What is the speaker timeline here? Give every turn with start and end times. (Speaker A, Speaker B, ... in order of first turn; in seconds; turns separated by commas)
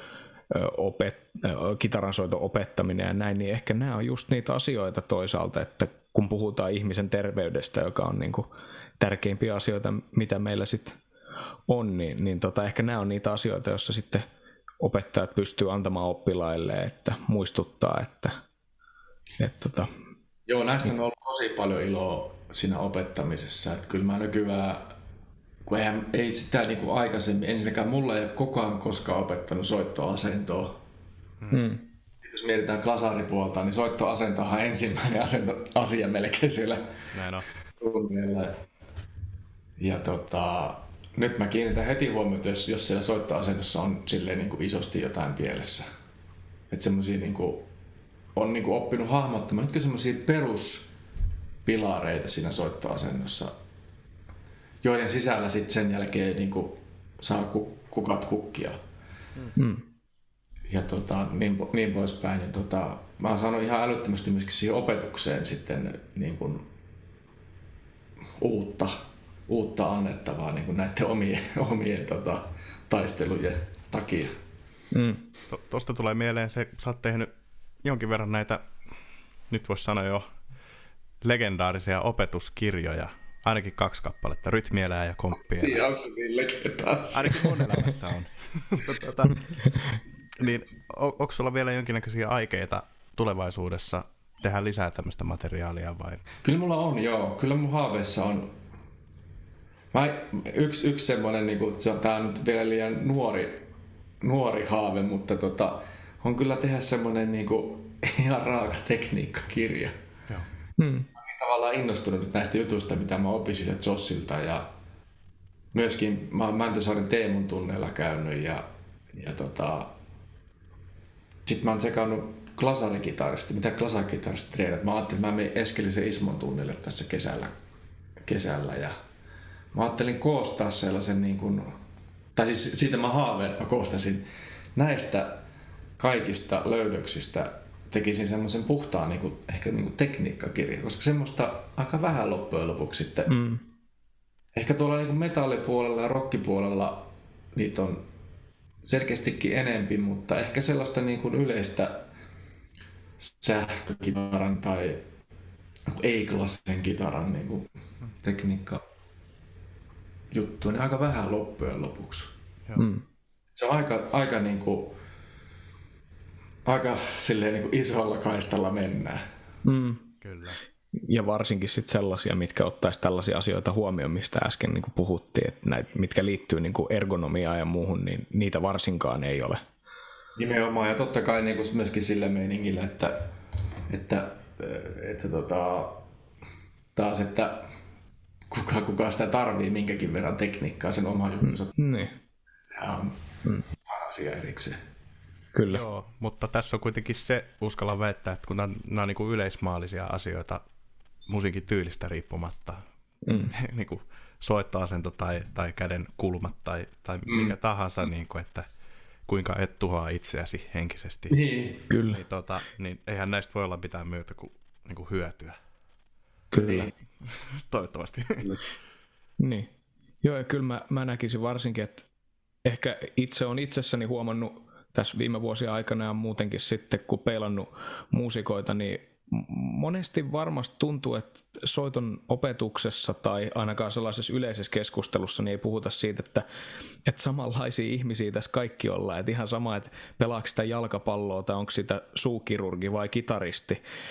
Speaker A: 0.5-8.5, Speaker A: 9.0-11.0, Speaker A: 11.7-14.2, Speaker A: 14.8-18.4, Speaker A: 19.4-19.9, Speaker B: 20.5-24.9, Speaker B: 25.7-30.8, Speaker C: 31.4-31.6, Speaker A: 31.5-31.9, Speaker B: 32.2-36.9, Speaker C: 37.1-37.5, Speaker B: 37.8-38.6, Speaker B: 39.8-45.9, Speaker B: 46.7-47.7, Speaker B: 48.4-50.9, Speaker B: 51.6-53.5, Speaker B: 54.8-58.8, Speaker A: 59.6-59.9, Speaker B: 60.7-66.7, Speaker B: 68.4-74.3, Speaker A: 74.9-75.3, Speaker C: 75.5-77.3, Speaker C: 77.8-78.7, Speaker C: 79.5-80.3, Speaker C: 81.2-85.9, Speaker B: 85.6-87.7, Speaker C: 87.1-89.8, Speaker C: 90.4-96.2, Speaker B: 96.4-98.5, Speaker B: 99.9-103.6, Speaker B: 104.2-109.9, Speaker A: 110.8-111.1, Speaker B: 111.2-114.7, Speaker B: 115.7-119.9, Speaker B: 121.5-127.5, Speaker B: 128.2-129.0, Speaker B: 129.7-131.8, Speaker B: 132.3-134.2, Speaker B: 134.8-135.4, Speaker B: 136.0-143.4, Speaker A: 143.3-143.6, Speaker B: 144.6-148.0, Speaker B: 148.8-152.1, Speaker B: 153.2-155.0, Speaker B: 155.9-157.7, Speaker B: 158.2-158.8, Speaker B: 160.3-162.3, Speaker A: 162.8-163.1, Speaker B: 163.6-164.9, Speaker B: 166.7-169.2, Speaker A: 169.6-170.1, Speaker C: 170.2-170.6, Speaker A: 171.1-179.6, Speaker B: 180.4-183.2, Speaker B: 183.9-186.0, Speaker B: 187.0-187.7, Speaker B: 188.5-191.8, Speaker A: 191.4-192.2, Speaker B: 192.7-193.2, Speaker B: 193.8-194.8, Speaker A: 195.5-195.8, Speaker C: 195.7-200.6, Speaker C: 201.3-202.8, Speaker A: 203.2-203.5, Speaker C: 203.5-208.7, Speaker B: 207.3-207.5, Speaker C: 209.3-215.6, Speaker B: 211.3-211.8, Speaker A: 211.9-212.2, Speaker B: 216.6-216.9, Speaker A: 216.6-216.8, Speaker C: 217.3-218.6, Speaker A: 219.4-219.7, Speaker A: 220.2-222.1, Speaker A: 222.7-236.5, Speaker A: 237.1-243.8